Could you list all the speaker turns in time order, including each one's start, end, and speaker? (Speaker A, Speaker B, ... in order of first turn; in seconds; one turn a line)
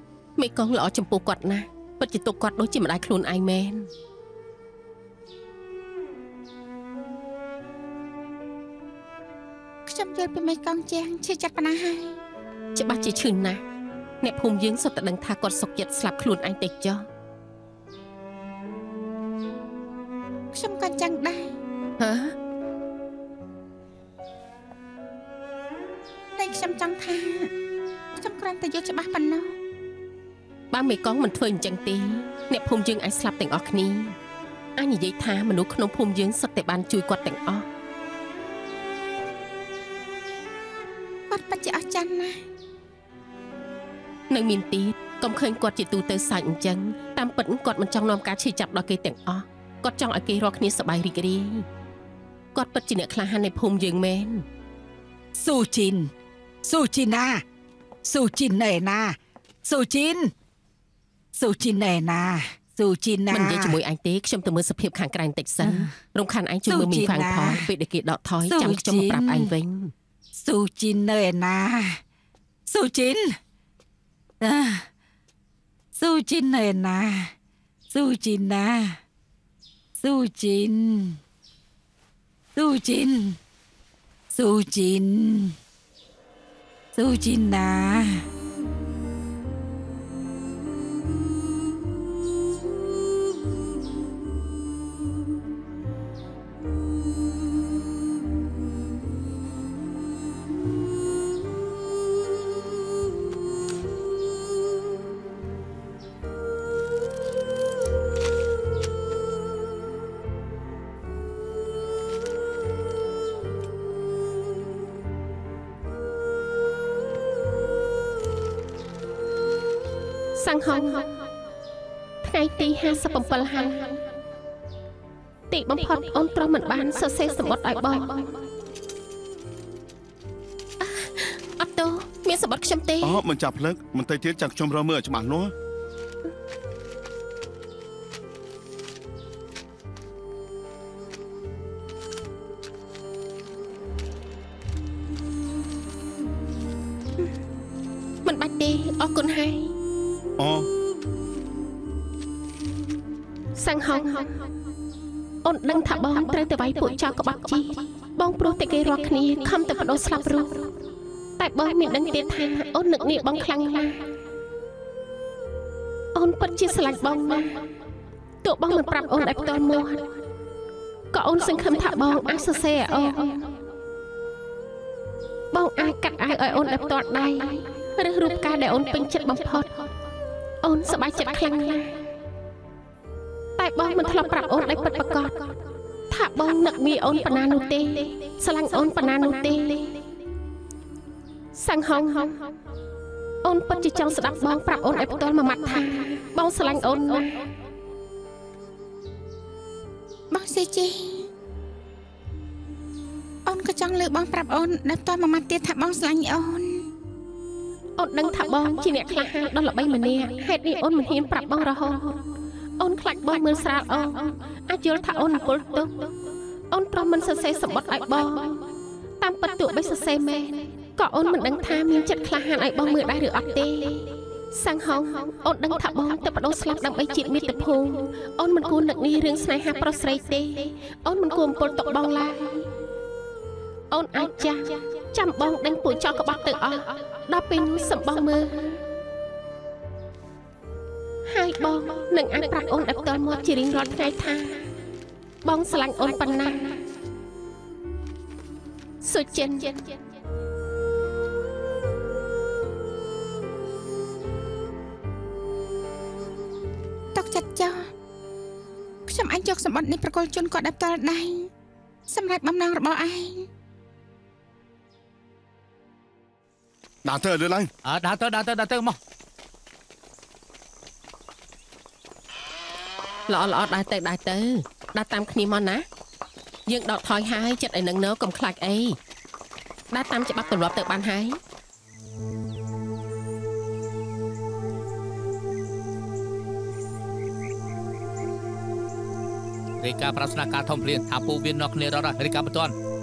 Speaker A: 0.4-3.9
Speaker B: 9.9-12.2
Speaker A: 12.7-13.6
Speaker A: 14.2-17.0
Speaker B: 20.5-21.5
Speaker A: 22.0-22.3
Speaker B: 26.4-27.5
Speaker B: 28.2-29.5
Speaker A: 30.7-34.1
Speaker A: 34.8-37.6
Speaker B: 41.3-42.4
Speaker A: 44.3-51.6
Speaker A: 52.5-54.4
Speaker C: 55.3-56.1
Speaker C: 56.6-57.4
Speaker C: 58.0-60.3
Speaker C: 61.3-63.8
Speaker A: 63.3-69.9
Speaker C: 65.6-65.9
Speaker C: 66.7-67.7
Speaker C: 68.4-69.5
Speaker C: 70.3-72.0
Speaker C: 72.7-73.4
Speaker C: 74.4-74.8
Speaker C: 76.0-77.3
Speaker C: 77.9-79.0
Speaker C: 80.0-81.2
Speaker C: 82.5-83.4
Speaker C: 84.3-85.5
Speaker C: 86.9-88.2
Speaker A: 120.4-121.2
Speaker A: 122.2-124.0
Speaker A: 125.5-128.3
Speaker A: 130.8-133.2
Speaker D: 133.0-135.5
Speaker A: 148.2-149.7
Speaker D: 150.4-150.7
Speaker A: 153.6-154.4
Speaker A: 155.4-160.7
Speaker A: 161.4-164.1
Speaker A: 166.1-167.6
Speaker A: 168.4-170.2
Speaker A: 171.1-173.4
Speaker A: 175.5-179.9
Speaker A: 180.6-182.0
Speaker A: 183.6-185.6
Speaker A: 186.1-190.1
Speaker A: 191.6-192.5
Speaker A: 193.4-197.4
Speaker B: 200.3-201.3
Speaker B: 203.4-206.8
Speaker A: 208.0-212.2
Speaker A: 212.8-216.1
Speaker A: 216.7-218.7
Speaker A: 219.2-232.7
Speaker A: 233.9-238.8
Speaker A: 241.3-244.7
Speaker A: 245.4-246.8
Speaker A: 249.0-249.8
Speaker B: 257.1-257.9
Speaker B: 259.1-261.5
Speaker B: 262.1-263.5
Speaker D: 267.0-267.7
Speaker E: 267.8-269.0
Speaker A: 273.3-275.8
Speaker A: 276.7-279.0
Speaker A: 279.9-281.4
Speaker E: 289.8-292.7